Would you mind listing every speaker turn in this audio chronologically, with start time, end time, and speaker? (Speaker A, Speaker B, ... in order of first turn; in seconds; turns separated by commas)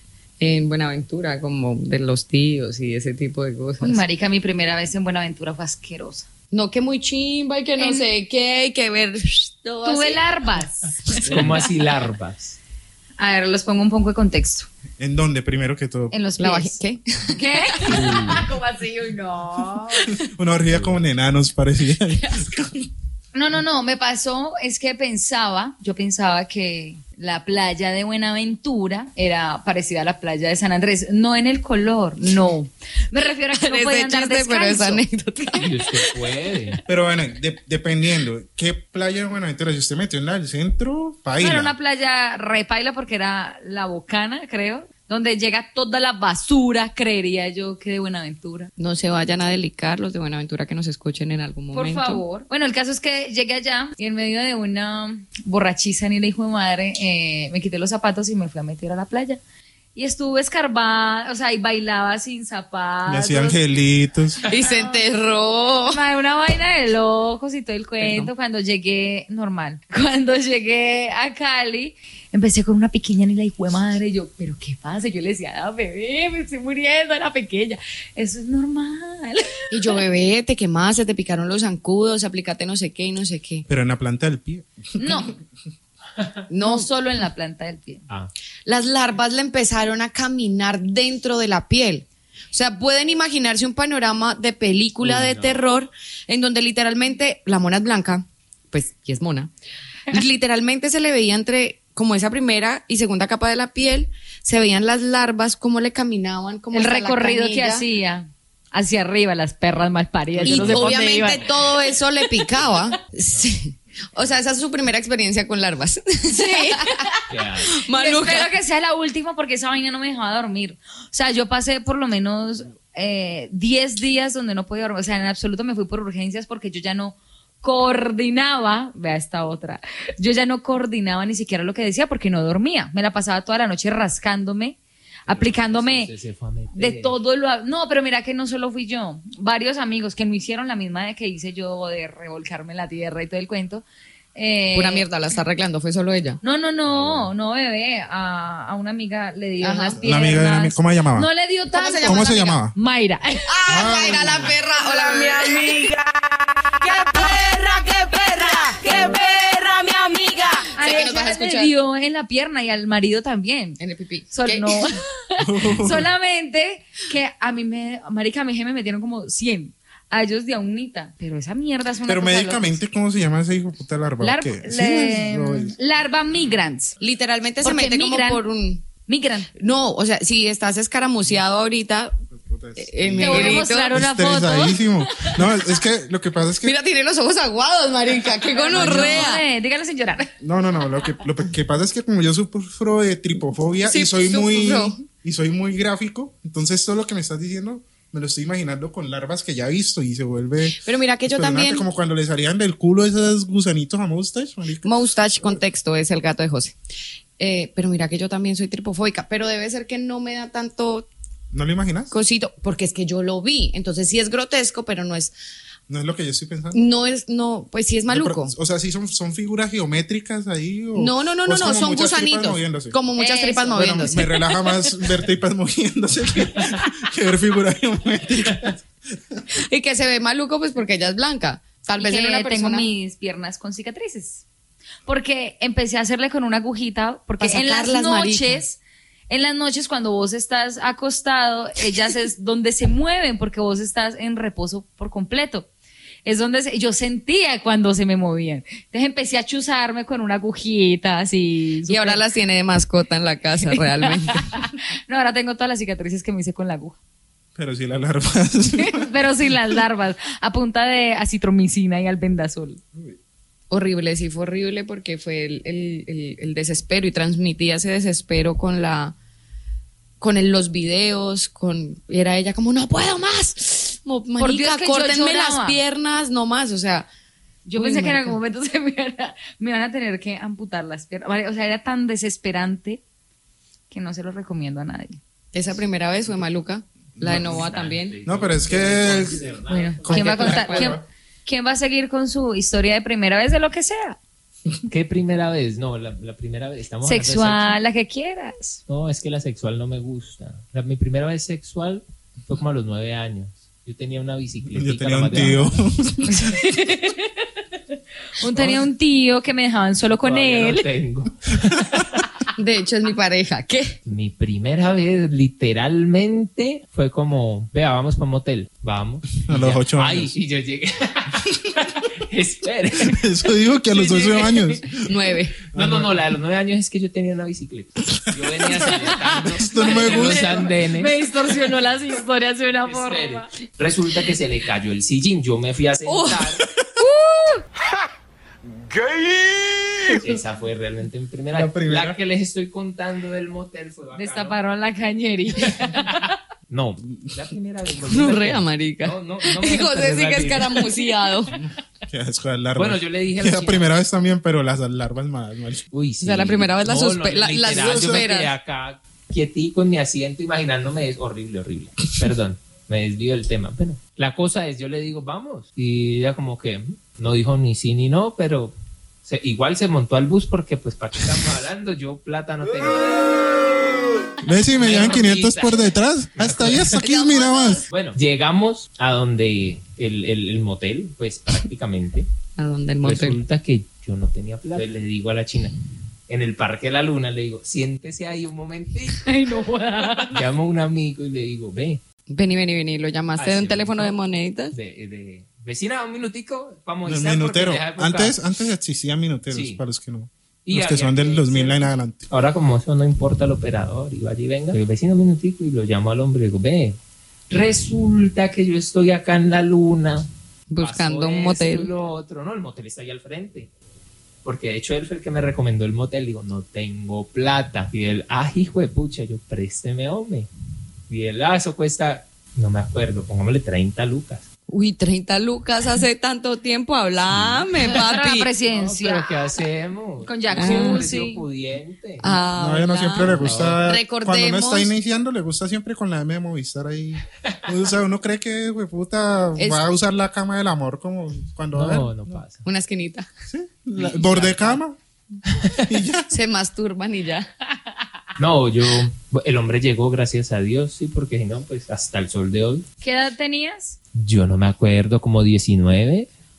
Speaker A: 0.4-4.0, Speaker B: 3.8-6.3, Speaker A: 6.5-10.2, Speaker B: 7.8-8.1, Speaker B: 9.8-11.3, Speaker A: 11.1-11.5, Speaker C: 11.1-12.6, Speaker B: 13.2-14.7, Speaker D: 15.0-16.1, Speaker B: 16.1-16.8, Speaker A: 16.4-18.1, Speaker B: 17.3-20.2, Speaker C: 17.9-18.5, Speaker D: 20.1-22.9, Speaker C: 20.7-21.0, Speaker B: 23.3-35.6, Speaker A: 33.5-35.7, Speaker C: 35.6-36.8, Speaker D: 36.9-41.7, Speaker B: 41.4-48.7, Speaker A: 48.8-52.2, Speaker B: 51.7-59.4, Speaker B: 60.0-63.6, Speaker D: 63.1-64.4, Speaker A: 64.5-66.0, Speaker B: 64.5-65.0, Speaker B: 65.9-80.0, Speaker A: 68.0-68.3, Speaker A: 79.7-83.7, Speaker D: 83.7-85.3, Speaker B: 85.0-85.3, Speaker A: 86.5-86.9, Speaker B: 86.6-88.0, Speaker A: 88.7-99.5, Speaker C: 95.0-95.6, Speaker A: 100.1-107.9, Speaker B: 106.7-111.5, Speaker C: 110.4-111.6, Speaker A: 110.5-117.1, Speaker B: 116.3-117.2, Speaker C: 117.3-117.7, Speaker A: 117.6-118.5, Speaker B: 117.9-136.1, Speaker C: 135.3-137.2, Speaker B: 136.7-143.8, Speaker B: 144.3-145.1, Speaker A: 144.7-146.4, Speaker B: 146.4-153.5, Speaker C: 146.9-147.3, Speaker A: 149.6-150.0, Speaker D: 150.0-151.3, Speaker A: 151.7-152.3, Speaker D: 152.0-152.8, Speaker A: 153.5-155.7, Speaker D: 153.7-154.6, Speaker E: 154.8-156.1, Speaker E: 156.8-160.7, Speaker B: 158.7-163.8, Speaker A: 160.8-161.7, Speaker A: 163.8-164.9, Speaker B: 164.3-172.8, Speaker D: 165.4-166.1, Speaker D: 172.1-175.8, Speaker B: 174.2-177.0, Speaker A: 177.0-178.9, Speaker B: 177.6-178.4, Speaker B: 179.1-179.5, Speaker A: 179.6-182.2, Speaker D: 182.3-186.8, Speaker A: 182.8-184.0, Speaker B: 183.2-185.6, Speaker A: 186.6-189.4, Speaker B: 188.5-190.3, Speaker D: 188.8-189.3, Speaker D: 190.4-205.6, Speaker A: 193.8-195.0, Speaker A: 200.8-201.9, Speaker A: 204.8-206.8, Speaker A: 207.4-211.1, Speaker D: 211.5-212.2, Speaker A: 212.1-215.3, Speaker D: 215.9-216.8, Speaker A: 216.7-218.5, Speaker D: 218.1-223.0, Speaker A: 221.0-224.3, Speaker B: 223.2-224.2, Speaker D: 223.8-229.4, Speaker A: 229.7-232.9, Speaker B: 232.0-234.4, Speaker B: 235.1-245.7, Speaker A: 237.4-238.6, Speaker B: 246.2-252.2, Speaker A: 251.9-254.5, Speaker B: 253.7-257.0, Speaker D: 257.6-259.1, Speaker B: 258.8-262.8, Speaker A: 263.7-269.1, Speaker A: 270.2-277.1, Speaker B: 274.4-275.8, Speaker B: 277.7-283.0, Speaker A: 277.8-278.4, Speaker B: 283.9-285.2, Speaker A: 285.5-288.2, Speaker D: 287.2-287.6, Speaker C: 287.2-290.7, Speaker D: 288.3-289.5, Speaker B: 289.7-294.2, Speaker D: 290.0-291.0, Speaker A: 290.1-290.9, Speaker C: 294.9-297.8, Speaker B: 297.0-298.8, Speaker C: 298.9-305.8, Speaker D: 304.7-306.6, Speaker B: 306.2-307.4, Speaker B: 308.4-310.9, Speaker C: 310.2-312.2, Speaker A: 312.6-314.0, Speaker C: 314.1-323.2, Speaker D: 319.4-320.3, Speaker D: 323.0-325.0, Speaker B: 324.0-324.8, Speaker A: 325.0-325.6, Speaker C: 325.7-331.1, Speaker D: 325.7-326.1, Speaker D: 328.6-330.5, Speaker B: 329.1-333.5, Speaker C: 332.8-336.7, Speaker A: 336.1-336.6, Speaker B: 337.0-337.6, Speaker E: 338.9-340.2, Speaker C: 340.2-344.6, Speaker D: 341.5-342.2, Speaker B: 344.1-346.3, Speaker C: 345.6-351.0, Speaker A: 348.0-351.5, Speaker D: 351.5-355.9, Speaker C: 352.8-353.9, Speaker C: 355.9-373.6, Speaker A: 356.2-358.5, Speaker D: 357.7-358.3, Speaker D: 374.4-377.9, Speaker C: 374.8-377.0, Speaker A: 377.0-377.9, Speaker C: 377.9-382.3, Speaker A: 382.6-383.4, Speaker C: 383.0-385.8, Speaker C: 386.3-389.3, Speaker B: 389.2-390.4, Speaker C: 390.3-392.0, Speaker A: 392.3-394.8, Speaker C: 393.4-394.1, Speaker C: 394.7-398.4, Speaker D: 397.1-402.2, Speaker C: 399.5-399.8, Speaker C: 400.7-407.0, Speaker C: 407.5-410.3, Speaker A: 410.7-411.9, Speaker C: 410.8-413.7, Speaker C: 414.4-420.5, Speaker C: 421.1-424.5, Speaker A: 424.7-428.5, Speaker C: 427.3-427.9, Speaker B: 427.9-429.5, Speaker C: 428.7-432.3, Speaker B: 430.2-431.4, Speaker A: 430.6-431.0, Speaker A: 432.2-434.9, Speaker D: 432.6-442.4, Speaker C: 433.2-433.9, Speaker A: 439.6-439.8, Speaker C: 441.7-442.6, Speaker A: 442.6-443.3, Speaker D: 443.5-445.0, Speaker C: 444.0-444.8, Speaker C: 445.5-445.9, Speaker D: 445.9-446.3, Speaker A: 446.3-447.5, Speaker C: 448.4-452.9, Speaker B: 453.0-454.0, Speaker C: 454.1-456.3